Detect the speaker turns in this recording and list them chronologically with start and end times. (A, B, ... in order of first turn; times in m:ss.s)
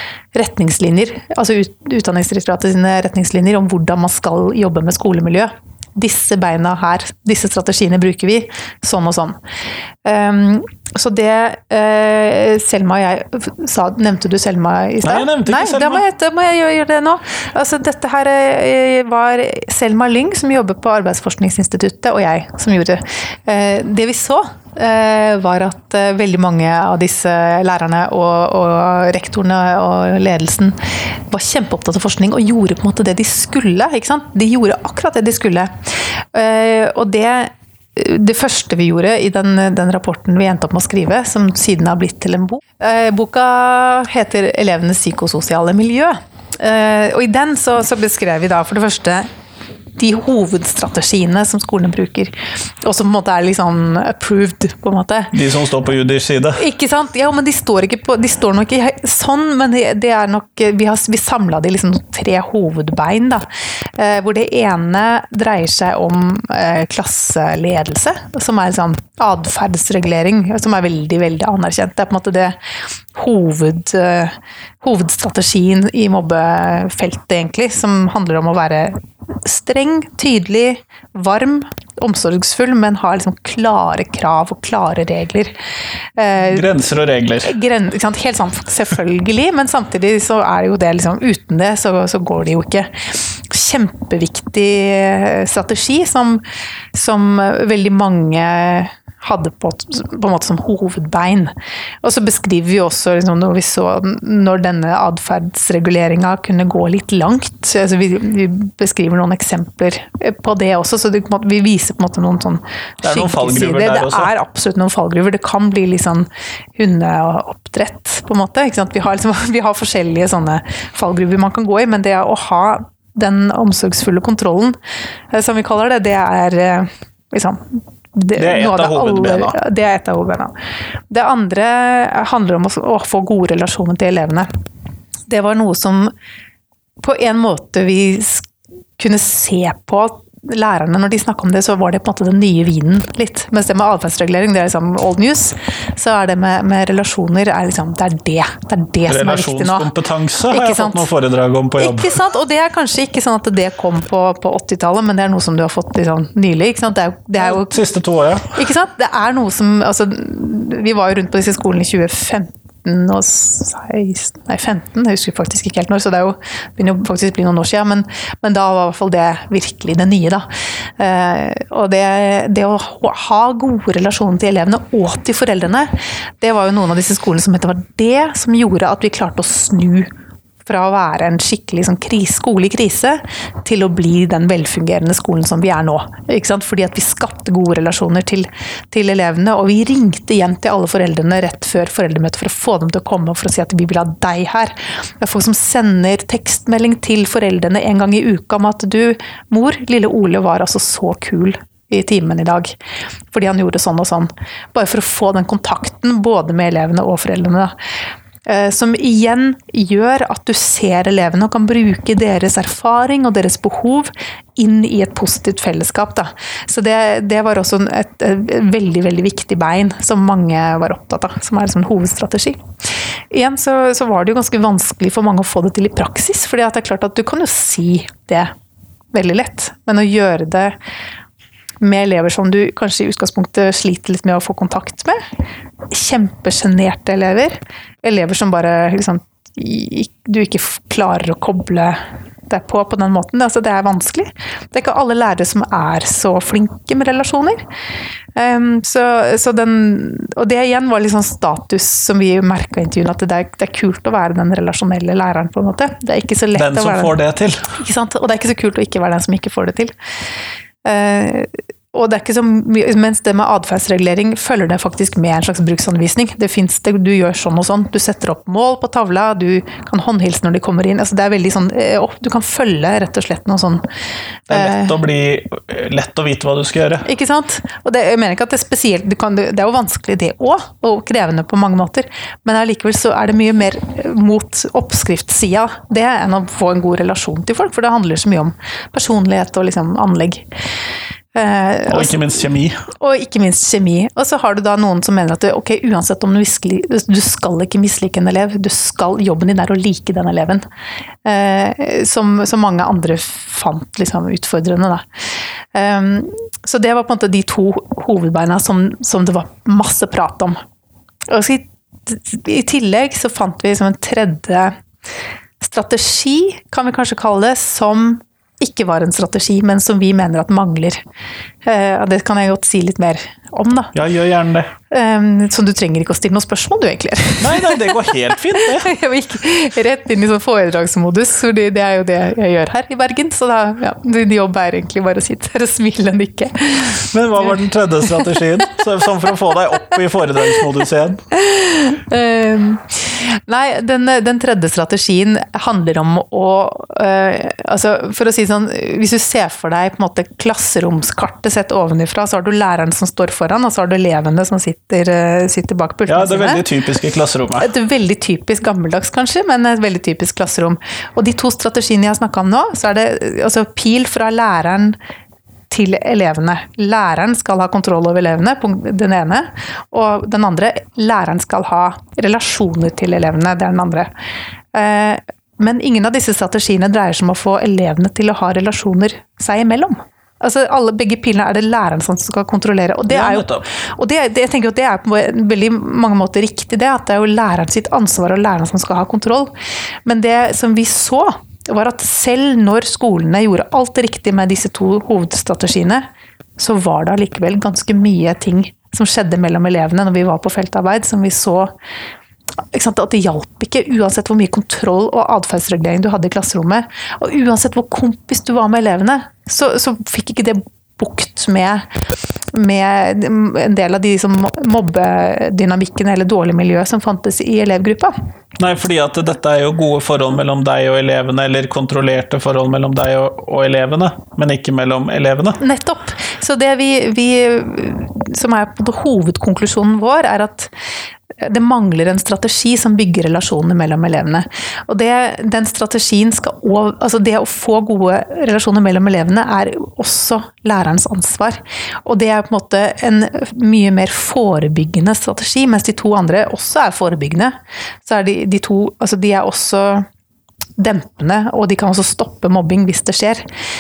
0:00.3-0:09.4 A
0:10.0-0:30.8 A
0:15.0-0:16.0 B
0:31.3-0:49.3 A
0:50.0-0:55.3 A
0:55.3-0:56.6 B
0:56.6-1:03.5 A
1:04.0-1:12.6 A
1:13.2-1:25.5 A
1:26.2-1:26.7 A
1:26.4-1:27.5 B
1:27.4-1:36.4 A
1:36.9-2:04.8 A
1:53.0-1:54.3 B
2:05.3-2:10.5 A
2:08.4-2:09.6 B
2:11.1-2:14.5 A
2:15.3-2:16.1 A
2:17.0-2:29.9 A
2:29.1-2:32.1 B
2:30.5-2:31.1 A
2:31.8-2:37.8 A
2:37.4-2:38.6 B
2:38.5-2:50.5 A
2:51.0-3:00.1 A
3:00.7-3:22.8 A
3:23.3-3:27.7 A
3:28.5-3:42.6 A
3:43.3-3:48.5 A
3:49.1-3:50.8 A
3:51.8-3:55.2 A
3:55.9-4:07.6 A
4:08.4-4:17.2 A
4:16.6-4:17.7 B
4:17.8-4:19.9 A
4:20.8-4:33.8 A
4:34.5-4:37.1 B
4:34.5-4:35.0 A
4:37.0-4:50.4 A
4:51.3-5:00.6 A
4:51.9-4:52.8 B
5:01.2-5:05.1 A
5:05.7-5:10.6 A
5:11.3-5:14.8 A
5:15.6-5:21.0 A
5:21.6-5:23.9 A
5:23.9-5:24.7 B
5:24.9-5:38.8 A
5:27.4-5:28.9 B
5:37.1-5:41.2 B
5:41.3-5:56.6 A
5:56.1-5:57.7 B
5:57.6-6:05.0 A
6:05.7-6:14.1 A
6:14.7-6:29.5 A
6:23.1-6:23.7 B
6:30.1-6:36.1 A
6:36.6-6:41.7 A
6:42.7-6:51.8 A
6:52.5-6:58.2 A
6:58.6-7:05.6 B
7:05.6-7:10.7 A
7:11.4-7:30.1 A
7:30.8-7:33.4 A